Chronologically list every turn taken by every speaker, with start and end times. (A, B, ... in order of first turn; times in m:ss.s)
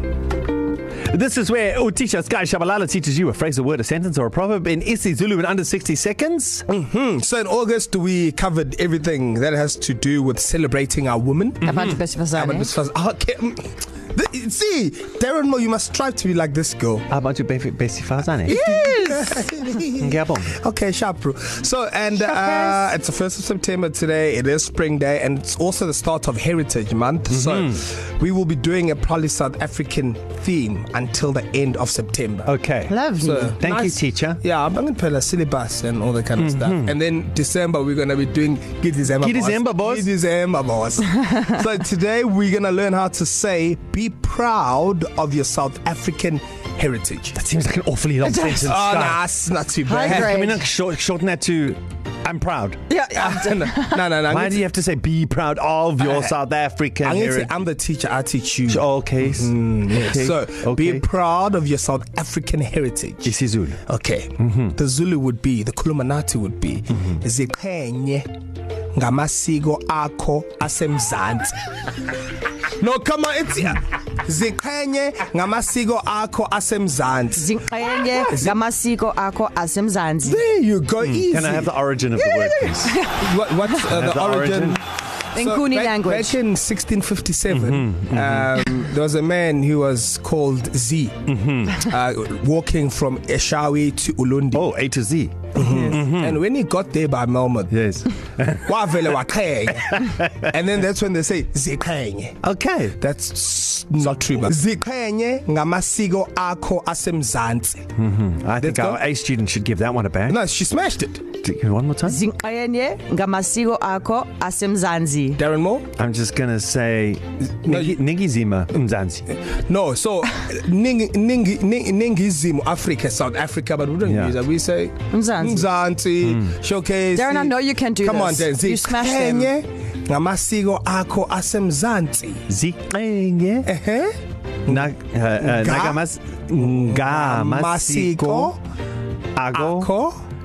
0:01.1-0:06.6 A
0:06.7-0:11.7 B
0:11.6-0:12.7 C
0:11.7-0:12.0 A
0:12.3-0:17.1 B
0:17.1-0:18.6 A
0:18.5-0:19.8 C
0:18.5-0:32.5 B
0:20.0-0:20.6 A
0:22.1-0:22.9 C
0:27.3-0:27.8 A
0:32.4-0:33.0 A
0:32.9-0:33.6 C
0:33.2-0:47.4 B
0:33.6-0:34.4 A
0:36.4-0:36.9 A
0:39.2-0:40.1 A
0:47.4-0:49.2 A
0:48.2-0:48.6 C
0:48.6-0:50.4 B
0:49.8-0:50.7 C
0:50.0-0:52.8 A
0:52.9-0:54.1 C
0:53.1-0:54.6 B
0:54.2-0:57.6 A
0:56.0-0:56.4 B
0:57.0-1:03.3 B
0:58.7-1:01.0 A
1:03.2-1:03.8 A
1:03.9-1:08.3 B
1:04.4-1:04.7 A
1:08.9-1:11.6 B
1:12.8-1:17.6 B
1:17.4-1:20.4 C
1:18.1-1:18.6 B
1:20.2-1:21.7 B
1:21.0-1:23.0 A
1:22.2-1:23.8 C
1:22.6-1:24.8 B
1:23.8-1:24.8 A
1:25.3-1:26.4 C
1:25.4-1:31.2 B
1:27.5-1:28.6 A
1:31.3-1:31.8 A
1:31.8-1:34.7 B
1:34.5-1:36.4 A
1:35.6-1:37.7 B
1:37.7-1:38.8 A
1:38.6-1:42.4 B
1:39.9-1:40.3 A
1:42.4-1:43.0 A
1:43.0-1:47.8 B
1:48.0-1:50.4 A
1:48.6-1:49.0 B
1:50.3-1:51.3 B
1:51.4-1:52.2 A
1:52.1-1:55.4 C
1:55.4-1:55.9 B
1:56.0-1:59.2 A
1:57.7-1:58.0 B
1:59.3-2:12.4 B
2:04.0-2:04.4 A
2:05.1-2:05.7 C
2:06.2-2:06.6 A
2:07.1-2:09.5 C
2:12.5-2:13.7 A
2:13.7-2:14.1 B
2:14.7-2:18.5 A
2:15.4-2:16.0 B
2:16.5-2:18.6 B
2:19.4-2:19.9 A
2:19.5-2:20.2 B